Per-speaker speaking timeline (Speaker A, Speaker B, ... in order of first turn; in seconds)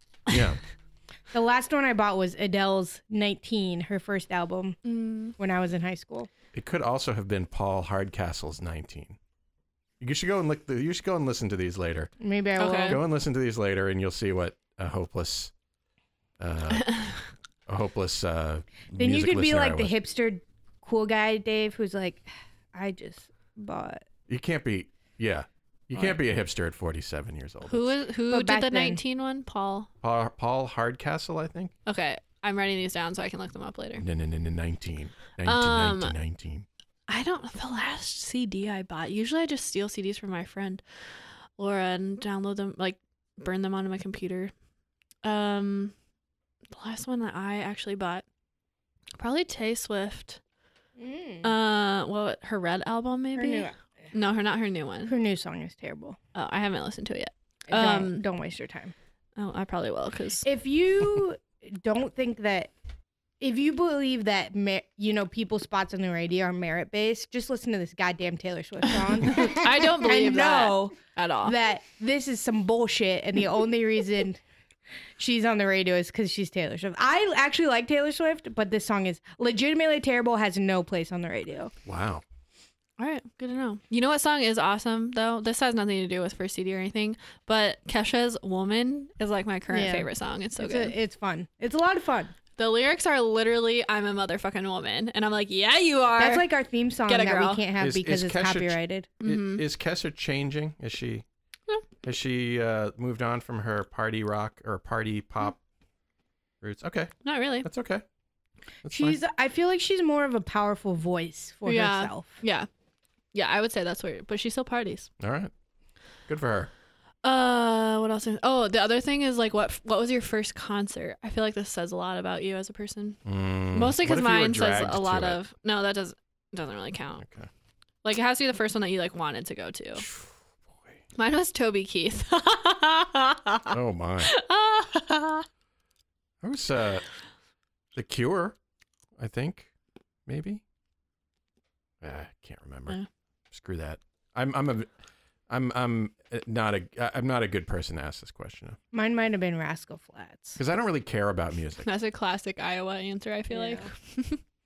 Speaker A: 0.3-0.6, 6.5-9.2, 10.0-12.1, 12.9-15.5, 16.4-19.9, 24.3-27.9, 30.0-31.7, 34.0-36.7, 81.8-82.2, 97.8-101.3, 102.0-105.6, 106.6-108.0, 108.8-109.2, 115.2-115.5, 116.3-116.7, 123.2-125.4, 127.2-127.5, 130.0-130.3, 133.7-134.3, 136.4-137.0, 137.9-138.6, 139.2-139.7, 140.3-140.6, 142.0-143.0, 143.5-144.9, 145.5-148.8, 150.6-151.9
Speaker B: 1.3-4.8, 5.4-6.3, 12.2-13.0, 19.0-24.1, 28.3-29.0, 51.0-51.5, 53.4-53.7, 55.1-56.2, 57.7-58.9, 60.5-62.7, 63.4-74.4, 75.2-81.7, 89.7-92.3, 96.2-99.1, 108.9-112.4, 148.9-150.6, 153.5-153.9
Speaker C: 4.8-5.4, 12.6-13.0, 16.7-17.2, 27.7-29.9, 31.9-34.0, 35.5-36.1, 37.1-40.8, 41.6-44.5, 45.2-45.9, 46.8-48.2, 49.2-50.4, 51.4-55.1, 56.4-58.3, 59.4-60.5, 68.9-71.5, 83.0-91.0, 92.6-96.5, 97.1-97.6, 99.2-99.6, 107.2-107.7, 111.7-112.7, 113.3-115.1, 117.2-127.2, 128.0-130.1, 131.2-135.5, 151.8-154.4